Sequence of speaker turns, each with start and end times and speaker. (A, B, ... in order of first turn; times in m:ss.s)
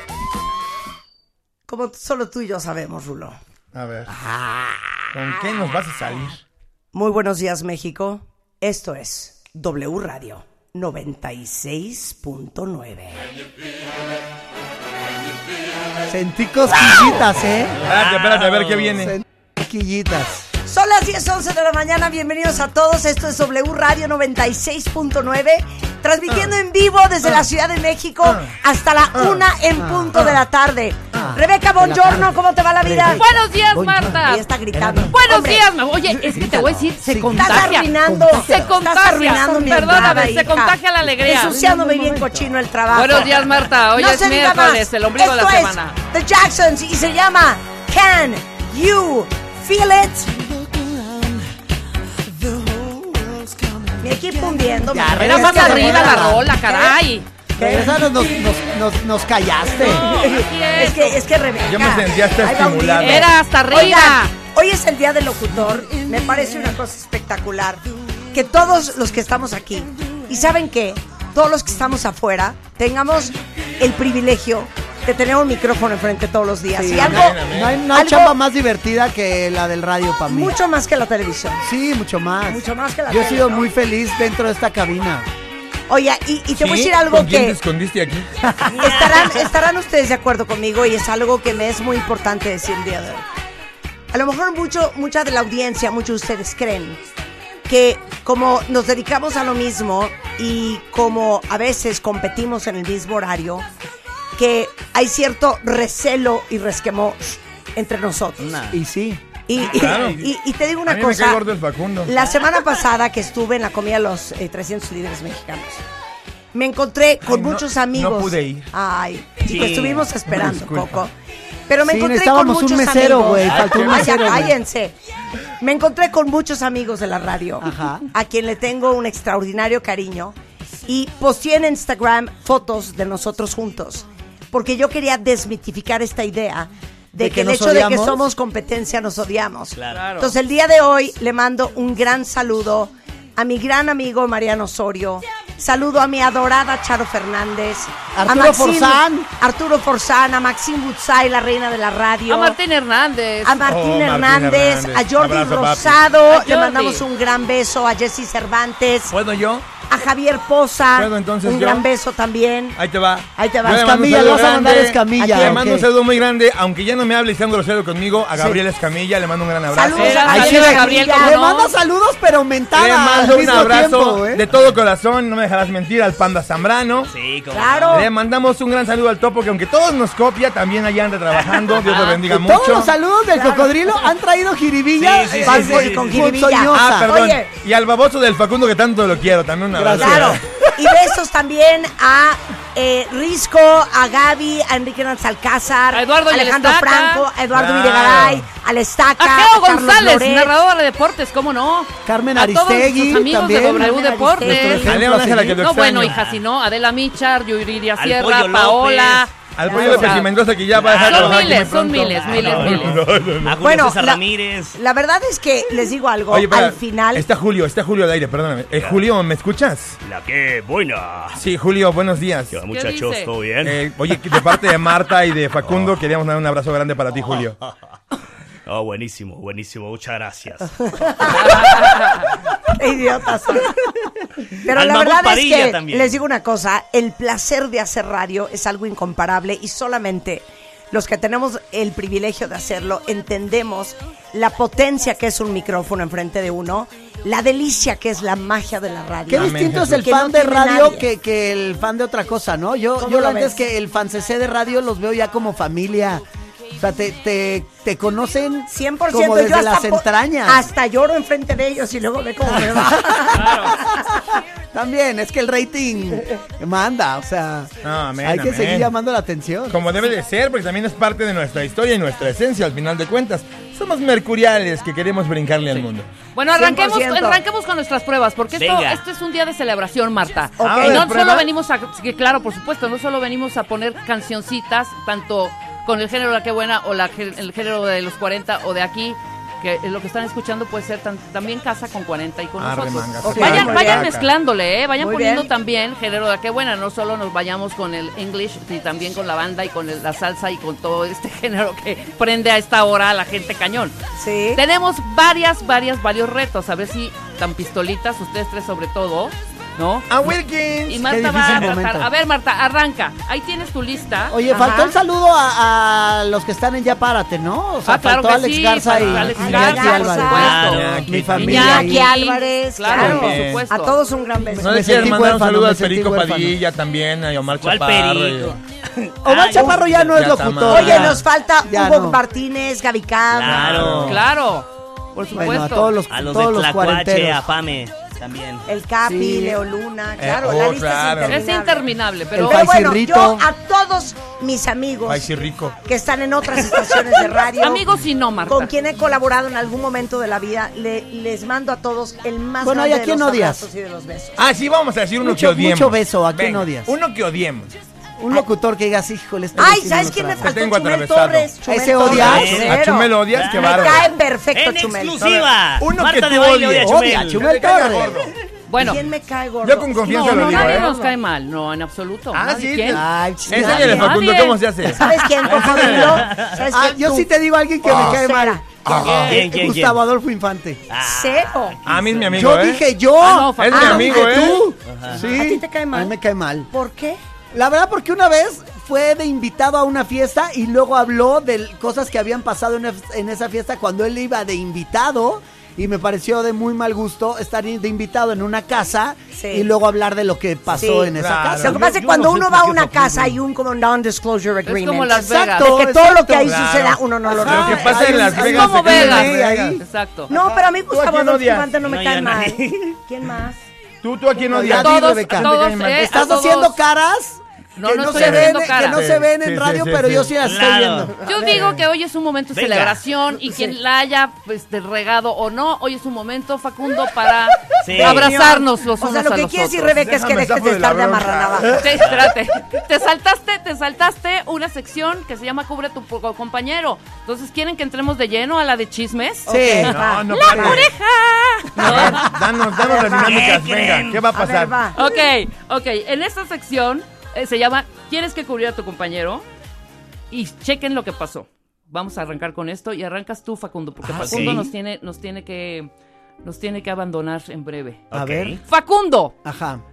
0:01.7-0:03.4 A
0:03.7-0:04.1 B
0:04.1-0:05.7 A
0:05.1-0:06.4 B
0:06.9-0:13.2 A
0:16.1-0:17.8 C
0:17.8-0:19.1 B
0:17.9-0:18.7 D
0:19.0-0:20.5 C
0:20.6-0:33.3 A
0:28.2-0:28.5 B
0:29.1-0:29.4 B
0:29.8-0:30.4 C
0:31.1-0:35.1 C
0:33.1-0:34.4 E
0:34.2-0:35.7 A
0:35.1-0:41.6 E
0:36.2-0:38.8 C
0:36.3-0:36.7 A
0:37.2-0:50.5 A
0:41.3-0:42.5 C
0:42.9-0:46.0 E
0:54.0-0:57.0 A
0:54.9-0:56.5 C
0:55.1-0:57.2 E
0:57.6-0:58.3 A
0:57.6-1:00.0 C
0:59.8-1:07.8 A
0:59.8-1:01.2 E
1:01.6-1:03.3 B
1:03.0-1:04.3 E
1:08.3-1:18.3 A
1:16.8-1:20.6 C
1:17.0-1:17.8 B
1:20.3-1:21.6 A
1:21.6-1:25.3 C
1:22.5-1:23.7 A
1:25.9-1:27.6 A
1:26.5-1:28.3 B
1:28.7-1:29.5 D
1:28.8-1:33.2 A
1:34.1-1:37.0 A
1:37.7-1:43.6 A
1:44.4-1:48.6 A
1:48.4-1:48.8 D
1:48.7-1:49.2 C
1:49.5-1:51.4 A
1:49.7-1:50.3 B
1:50.8-1:52.1 B
1:52.0-1:55.8 A
1:56.5-2:01.1 A
1:57.2-1:58.7 B
1:59.4-2:00.0 D
2:00.3-2:01.0 B
2:01.7-2:05.0 A
2:01.8-2:04.5 C
2:03.6-2:04.4 B
2:05.6-2:32.6 A
2:07.6-2:08.0 C
2:17.2-2:18.2 C
2:19.8-2:20.0 D
2:19.9-2:20.3 E
2:28.1-2:29.3 C
2:32.3-2:33.6 E
2:33.4-2:39.1 A
2:33.6-2:36.0 B
2:36.3-2:37.0 E
2:39.1-2:39.7 B
2:39.8-2:42.8 A
2:41.0-2:41.8 B
2:42.8-2:50.3 B
2:43.4-2:44.5 A
2:43.6-2:45.9 C
2:45.3-2:45.6 A
2:49.7-2:51.4 A
2:49.9-2:51.7 E
2:50.3-2:54.5 C
2:52.7-2:57.1 B
2:57.1-2:58.0 D
2:57.5-2:58.1 A
2:57.9-3:02.9 B
3:01.3-3:01.8 D
3:01.8-3:02.2 E
3:02.2-3:07.1 C
3:03.3-3:03.9 A
3:05.0-3:06.3 D
3:05.4-3:07.5 A
3:06.7-3:10.4 B
3:09.7-3:10.4 C
3:10.0-3:20.5 A
3:15.9-3:17.3 E
3:17.5-3:18.5 B
3:19.2-3:24.9 E
3:22.0-3:25.6 C
3:23.7-3:25.0 A
3:24.8-3:26.2 B
3:25.6-3:30.3 E
3:26.1-3:26.4 D
3:28.0-3:29.3 D
3:29.5-3:33.6 B
3:29.7-3:30.0 A
3:30.7-3:34.8 D
3:31.0-3:33.0 E
3:33.6-3:34.2 A
3:34.7-3:37.2 A
3:36.3-3:40.0 B
3:38.7-3:39.0 D
3:40.0-3:41.4 D
3:41.4-3:42.6 B
3:42.5-3:43.8 D
3:42.7-3:43.3 E
3:43.6-3:47.6 B
3:45.6-3:45.9 D
3:48.6-3:51.6 D
3:50.9-3:51.8 A
3:51.3-3:52.3 E
3:52.7-3:53.8 A
3:54.6-4:11.0 A
3:54.7-3:56.2 D
4:09.3-4:20.7 C
4:09.4-4:10.0 B
4:13.0-4:13.6 A
4:18.7-4:23.8 A
4:22.4-4:24.0 C
4:23.3-4:23.8 E
4:24.7-4:29.8 C
4:27.8-4:28.9 B
4:29.7-4:36.1 B
4:35.7-5:04.0 E
4:36.5-4:37.4 A
4:38.6-4:39.0 D
4:40.6-4:41.0 A
4:40.6-4:41.5 B
4:52.6-4:54.3 B
4:53.2-4:54.1 A
4:55.0-4:55.5 A
5:04.2-5:04.6 A
5:04.5-5:10.1 E
5:10.1-5:11.1 B
5:10.9-5:14.4 E
5:11.0-5:12.1 C
5:14.3-5:22.1 C
5:14.5-5:14.9 A
5:17.8-5:24.0 E
5:19.3-5:20.7 A
5:20.3-5:21.4 D
5:20.6-5:21.7 B
5:21.5-5:25.2 A
5:22.9-5:23.6 B
5:24.6-5:26.6 C
5:24.6-5:28.6 B
5:27.6-5:30.1 D
5:29.2-5:32.2 C
5:30.1-5:31.2 B
5:30.7-5:34.1 A
5:33.3-5:34.2 D
5:33.5-5:34.1 B
5:34.0-5:35.9 E
5:35.3-5:37.4 C
5:36.1-5:38.6 D
5:38.7-5:45.3 A
5:39.0-5:39.6 C
5:40.2-5:41.4 B
5:41.3-5:42.8 E
5:42.4-5:43.4 C
5:45.0-5:45.8 B
5:45.8-5:47.9 A
5:47.6-5:48.7 E
5:48.5-5:54.4 A
5:52.6-5:53.7 C
5:54.4-5:57.7 B
5:55.2-5:56.9 C
5:58.2-6:00.5 C
5:59.6-6:05.2 A
6:00.4-6:04.1 B
6:01.6-6:02.7 C
6:02.1-6:02.8 D
6:03.3-6:07.5 D
6:05.2-6:08.3 B
6:06.8-6:08.3 C
6:08.7-6:09.0 E
6:08.8-6:11.1 A
6:09.6-6:10.9 B
6:10.0-6:13.0 E
6:12.3-6:16.2 B
6:12.9-6:14.1 C
6:13.5-6:14.1 A
6:13.5-6:14.6 E
6:14.9-6:17.3 A
6:15.9-6:16.5 D
6:16.7-6:20.8 C
6:17.8-6:18.6 A
6:18.9-6:19.4 B
6:19.0-6:19.3 E
6:19.1-6:20.0 D
6:20.9-6:22.5 D
6:21.0-6:21.8 A
6:21.8-6:22.8 B
6:22.3-6:26.7 C
6:23.2-6:24.1 E
6:23.6-6:24.6 B
6:23.7-6:24.6 A
6:24.8-6:25.2 D
6:25.1-6:26.1 A
6:26.7-6:27.2 A
6:27.5-6:41.9 C
6:39.4-6:39.7 A
6:40.7-6:48.4 A
6:41.1-6:43.3 B
6:44.6-6:46.0 E
6:45.1-6:46.6 C
6:46.4-6:49.8 B
6:47.3-6:49.8 C
6:48.4-6:50.3 E
6:50.3-6:53.6 A
6:50.3-6:51.7 B
6:51.8-6:52.9 D
6:54.0-6:56.1 B
6:54.5-7:01.1 C
6:54.6-6:56.8 E
6:57.8-6:59.0 E
6:58.1-7:00.3 B
7:00.4-7:01.1 D
7:01.2-7:09.9 E
7:02.5-7:03.0 D
7:07.8-7:08.3 D
7:07.9-7:11.8 A
7:09.9-7:12.3 B
7:11.7-7:22.1 E
7:19.5-7:20.0 C
7:19.5-7:20.8 A
7:19.8-7:20.9 B
7:21.8-7:24.8 B
7:21.8-7:25.0 A
7:23.2-7:24.1 D
7:25.0-7:29.4 E
7:30.3-7:35.9 E
7:34.0-7:34.7 C
7:34.2-7:34.6 D
7:36.4-7:38.0 E
7:38.1-7:38.6 D
7:38.1-7:38.6 C
7:38.6-7:39.4 E
7:39.4-7:39.8 C